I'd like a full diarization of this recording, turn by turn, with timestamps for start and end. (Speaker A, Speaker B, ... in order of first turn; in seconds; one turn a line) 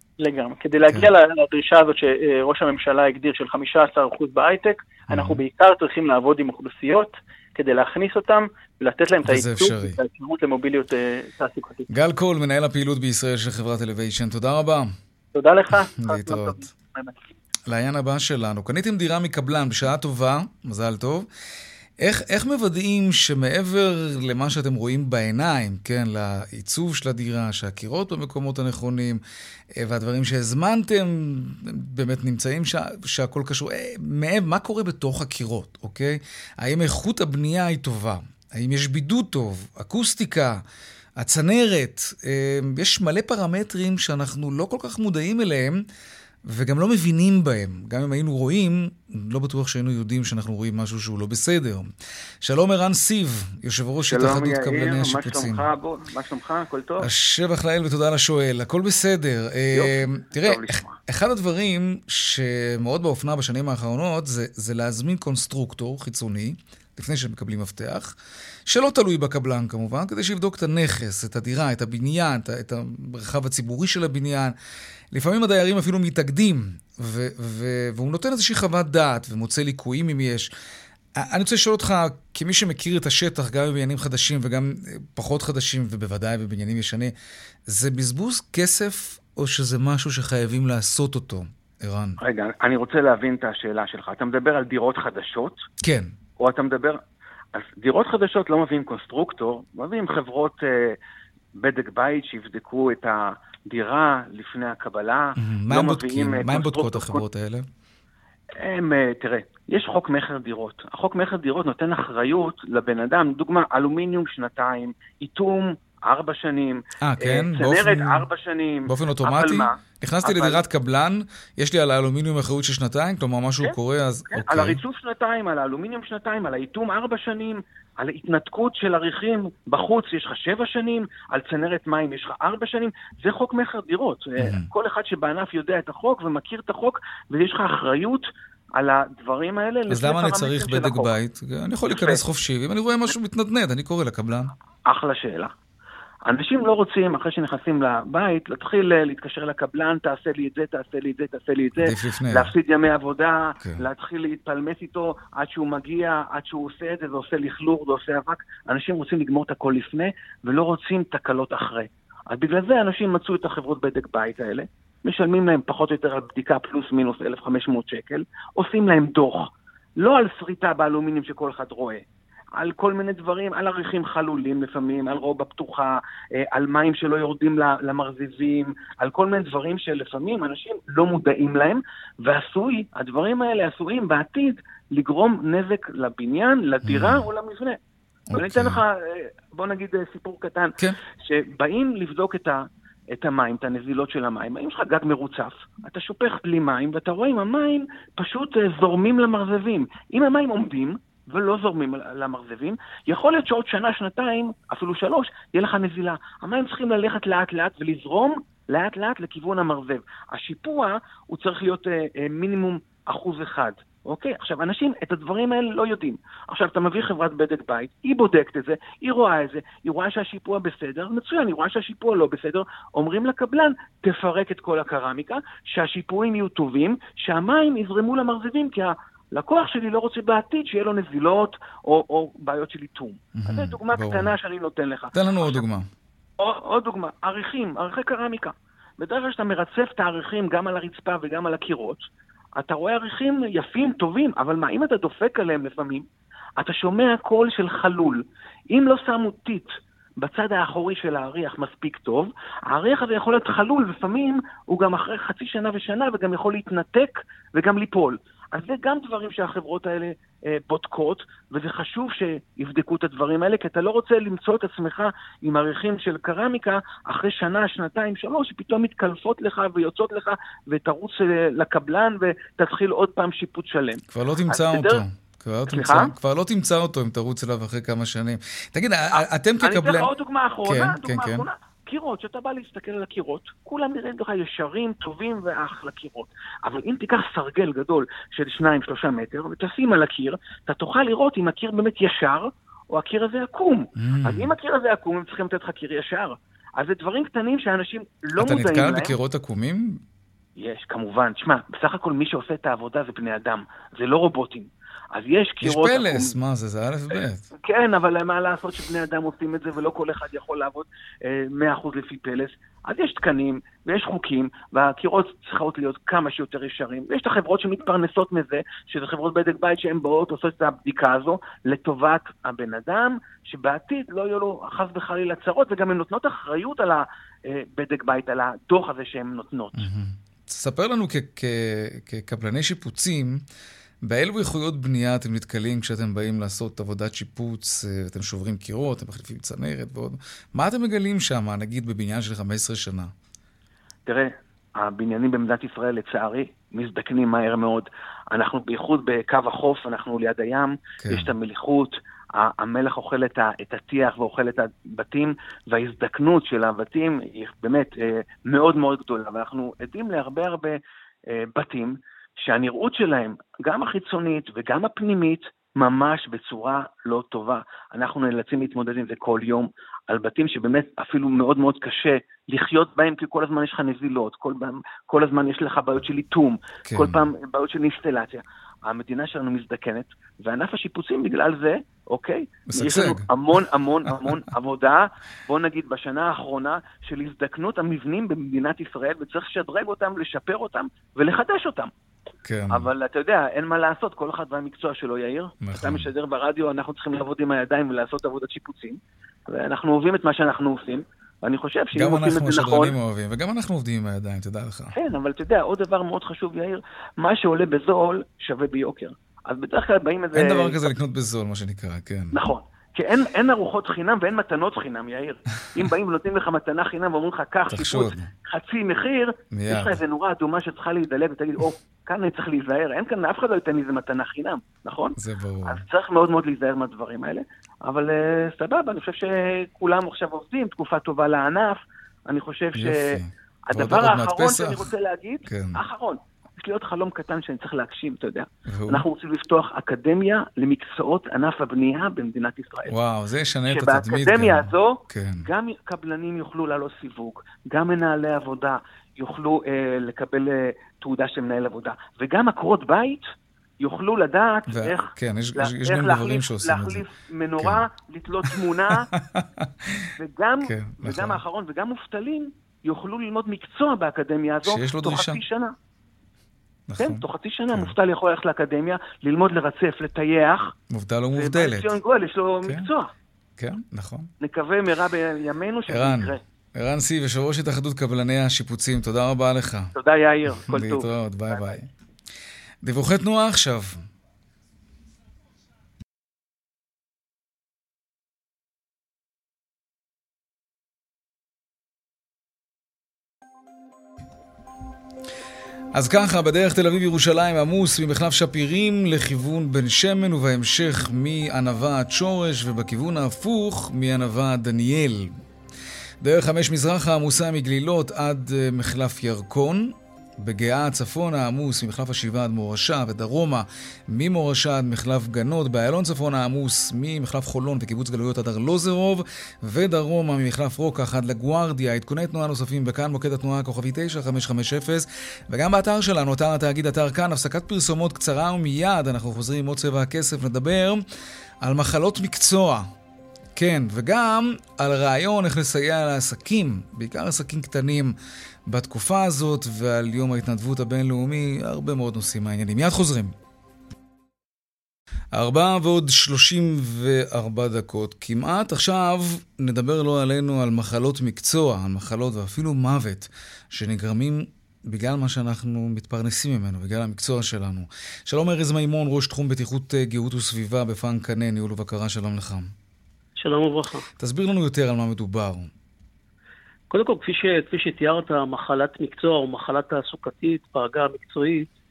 Speaker A: 0.2-11.9
Speaker B: 5.1-5.4
Speaker B: 9.3-10.0
Speaker B: 11.9-14.9
Speaker A: 15.3-17.1
Speaker B: 15.9-16.6
Speaker B: 17.7-21.3
Speaker B: 22.0-29.2
Speaker B: 29.8-40.6
Speaker B: 41.2-45.8
Speaker B: 46.5-51.9
Speaker B: 52.4-55.6
Speaker C: 54.1-57.1
Speaker B: 57.0-68.1
Speaker C: 59.7-61.0
Speaker B: 68.7-74.5
Speaker B: 75.1-80.5
Speaker B: 81.2-87.1
Speaker B: 87.7-92.2
Speaker C: 92.2-95.6
Speaker B: 95.8-96.1
Speaker C: 96.4-97.0
Speaker C: 97.5-101.0
Speaker C: 101.6-107.2
Speaker B: 105.4-107.7
Speaker C: 108.6-120.6
Speaker B: 117.0-118.3
Speaker B: 118.9-124.8
Speaker C: 124.3-141.2
Speaker B: 134.4-134.7
Speaker B: 139.9-144.5
Speaker C: 141.9-142.2
Speaker C: 144.9-145.5
Speaker C: 146.3-172.0
Speaker B: 151.8-152.5
Speaker C: 172.6-187.8
Speaker B: 186.8-187.3
Speaker B: 188.3-188.8
Speaker C: 188.3-235.6
Speaker B: 233.4-234.3
Speaker B: 235.1-235.9
Speaker C: 236.4-242.1
Speaker C: 242.6-246.1
Speaker C: 246.6-275.0
Speaker B: 274.1-280.1
Speaker C: 275.7-276.1
Speaker C: 279.1-299.2
Speaker B: 280.7-281.5
Speaker B: 294.0-294.5
Speaker B: 298.4-300.0
Speaker C: 300.6-306.3
Speaker B: 305.6-307.5
Speaker C: 307.6-329.9
Speaker B: 329.8-333.4
Speaker B: 334.0-343.1
Speaker C: 344.1-360.8
Speaker B: 351.0-351.3
Speaker C: 361.3-391.9
Speaker B: 376.9-377.2
Speaker B: 382.7-383.3
Speaker B: 392.4-392.9
Speaker C: 392.7-402.9
Speaker B: 395.6-396.1
Speaker B: 401.9-404.9
Speaker C: 404.9-410.9
Speaker B: 410.4-412.4
Speaker C: 412.3-442.9
Speaker B: 417.7-418.3
Speaker B: 419.5-420.0
Speaker B: 425.2-425.8
Speaker B: 432.8-434.9
Speaker B: 435.5-435.8
Speaker B: 438.7-439.1
Speaker B: 442.9-445.5
Speaker C: 443.7-453.2
Speaker C: 453.8-459.1
Speaker B: 454.7-457.1
Speaker B: 457.6-457.9
Speaker B: 459.1-460.1
Speaker C: 460.2-465.7
Speaker B: 460.6-461.4
Speaker B: 464.6-465.4
Speaker B: 466.9-467.9
Speaker C: 467.0-470.7
Speaker B: 470.9-471.9
Speaker C: 471.4-473.1
Speaker B: 473.6-474.3
Speaker C: 474.4-476.4
Speaker B: 475.9-479.9
Speaker C: 480.0-481.7
Speaker B: 480.5-481.9
Speaker B: 482.8-484.0
Speaker B: 495.9-505.3
Speaker B: 506.2-531.0
Speaker B: 531.6-532.9
Speaker B: 533.6-538.1
Speaker B: 538.7-543.4
Speaker B: 545.3-562.7
Speaker D: 563.4-564.0
Speaker B: 564.2-565.7
Speaker D: 566.9-571.7